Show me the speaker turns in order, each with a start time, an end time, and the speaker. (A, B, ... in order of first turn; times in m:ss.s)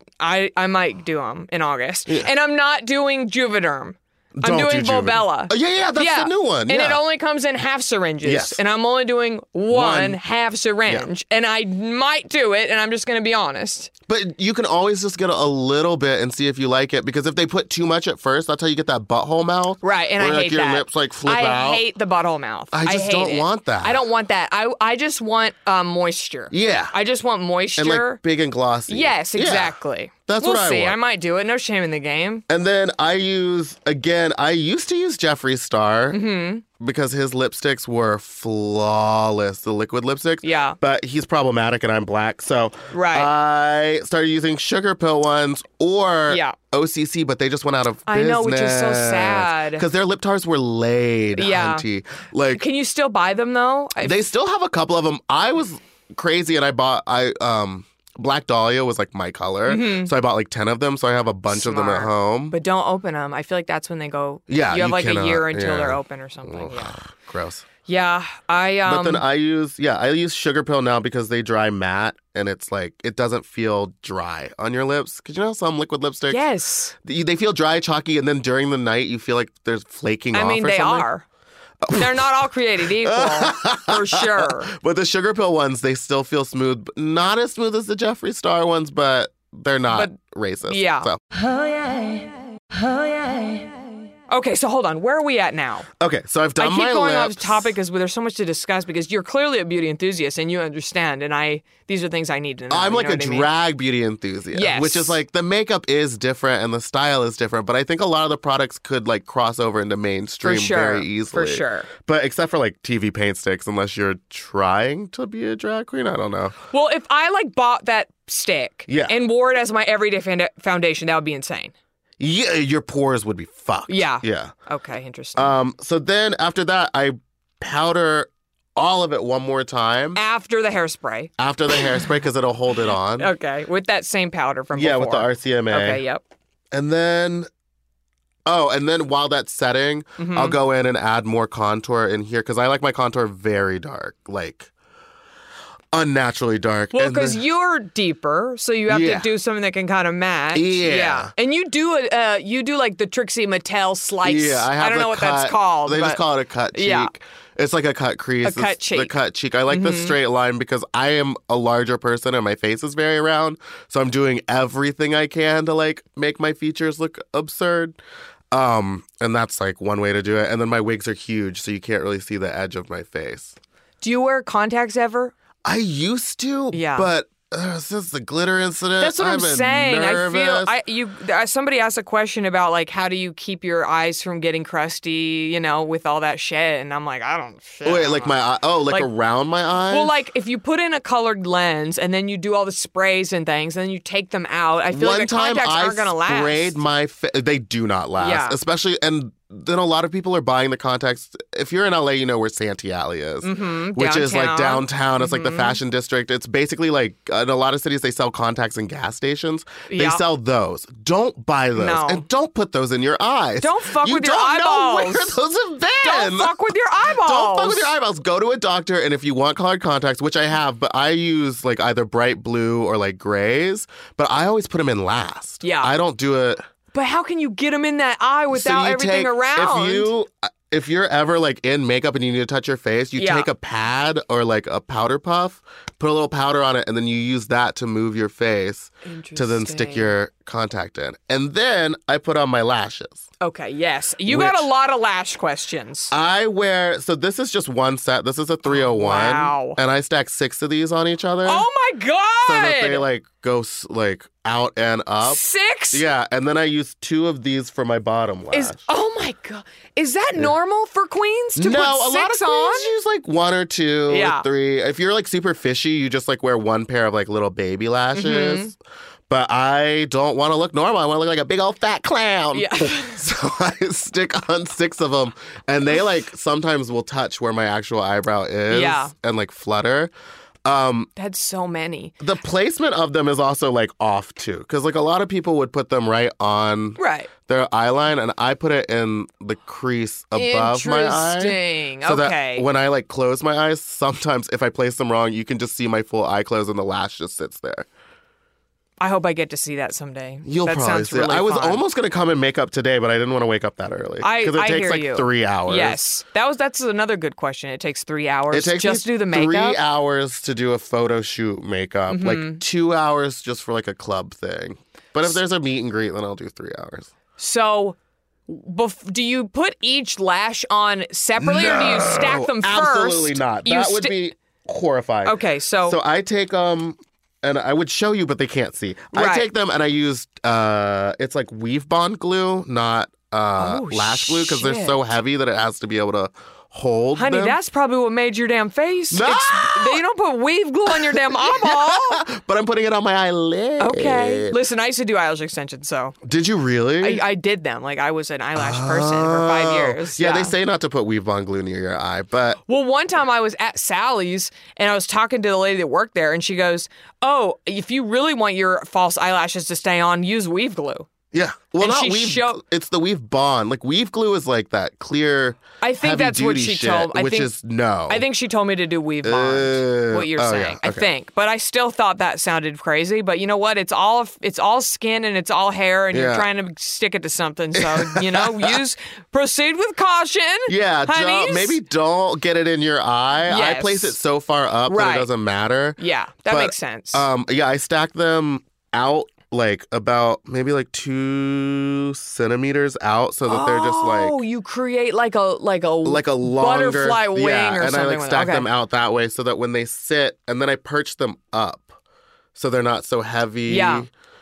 0:00.2-0:13.9 A
0:04.4-0:07.0 B
0:08.2-0:08.6 B
0:09.7-0:10.2 B
0:14.1-0:21.8 B
0:19.8-0:28.2 A
0:22.7-0:24.0 B
0:26.5-0:26.9 B
0:27.8-0:31.0 B
0:28.9-0:32.4 A
0:32.5-0:36.2 B
0:36.1-0:36.6 A
0:36.8-0:52.6 B
0:40.4-0:40.8 A
0:42.9-0:43.3 A
0:46.3-0:46.6 A
0:48.1-0:49.8 A
0:51.4-0:51.8 A
0:52.6-0:54.2 A
0:54.0-1:02.6 B
0:59.7-1:00.1 A
1:01.5-1:07.0 A
1:04.5-1:07.7 B
1:07.9-1:09.2 A
1:08.8-1:16.4 B
1:16.3-1:16.9 A
1:17.0-1:21.1 B
1:20.3-1:21.3 A
1:21.8-1:22.3 B
1:21.9-1:24.7 A
1:22.9-1:31.2 B
1:30.7-1:31.1 A
1:34.3-1:35.9 A
1:36.0-1:37.8 B
1:36.6-1:43.5 A
1:42.7-1:56.6 B
1:44.5-1:45.2 A
1:50.4-1:51.9 A
1:56.7-2:01.7 A
1:58.9-1:59.1 B
2:02.2-2:04.5 B
2:03.9-2:05.5 A
2:05.4-2:10.2 B
2:10.2-2:11.8 A
2:11.4-2:13.3 B
2:13.2-2:16.2 A
2:14.7-2:16.0 B
2:16.7-2:17.5 B
2:18.4-2:24.7 B
2:20.2-2:20.6 A
2:25.9-2:27.4 B
2:26.9-2:36.2 A
2:28.9-2:29.3 B
2:30.5-2:31.3 B
2:34.2-2:48.0 B
2:36.7-2:37.1 A
2:38.4-2:39.1 A
2:39.7-2:40.2 A
2:48.5-2:53.6 B
2:54.0-2:55.3 A
2:55.6-3:00.7 B
2:56.7-2:57.1 A
2:59.0-3:08.3 A
3:07.8-3:10.1 B
3:09.9-3:16.8 A
3:14.9-3:36.6 B
3:18.2-3:18.6 A
3:23.4-3:25.8 A
3:29.9-3:30.2 A
3:31.8-3:32.2 A
3:33.6-3:35.4 A
3:36.0-3:37.9 A
3:37.1-3:46.6 B
3:45.6-3:45.9 A
3:46.9-3:50.1 A
3:48.5-4:03.2 B
3:53.2-3:53.5 A
3:59.0-4:00.1 A
4:03.4-4:06.1 A
4:04.3-4:04.7 B
4:06.1-4:11.7 B
4:08.7-4:09.8 A
4:11.4-4:13.0 A
4:12.4-4:15.4 B
4:15.2-4:16.0 A
4:15.9-4:18.8 B
4:18.5-4:22.9 A
4:21.6-4:28.8 B
4:24.1-4:24.4 A
4:28.1-4:28.7 A
4:29.3-4:40.1 B
4:32.5-4:33.2 A
4:38.7-4:39.1 A
4:40.6-4:41.1 B
4:41.2-4:42.1 A
4:42.2-4:57.9 B
4:47.0-4:47.3 A
4:50.3-4:52.6 A
4:59.0-5:01.8 A
5:00.4-5:06.0 B
5:04.2-5:09.8 A
5:08.5-5:17.1 B
5:12.1-5:12.6 A
5:17.4-5:24.1 A
5:21.4-5:37.6 B
5:25.2-5:26.0 A
5:29.1-5:29.5 A
5:33.6-5:35.0 A
5:37.2-5:42.2 A
5:39.1-5:40.0 B
5:40.9-5:44.6 B
5:43.8-5:46.2 A
5:46.2-5:47.2 B
5:47.0-5:50.5 A
5:48.6-5:52.6 B
5:52.7-6:01.1 A
6:01.3-6:08.3 B
6:01.8-6:02.6 A
6:05.8-6:07.5 A
6:08.1-6:21.8 A
6:09.2-6:11.1 B
6:16.1-6:16.5 B
6:17.8-6:18.8 B
6:20.7-6:34.4 B
6:23.4-6:24.1 A
6:24.9-6:25.3 A
6:26.0-6:27.2 A
6:33.5-6:38.7 A
6:36.0-6:42.0 B
6:42.6-6:44.1 B
6:43.7-6:44.1 A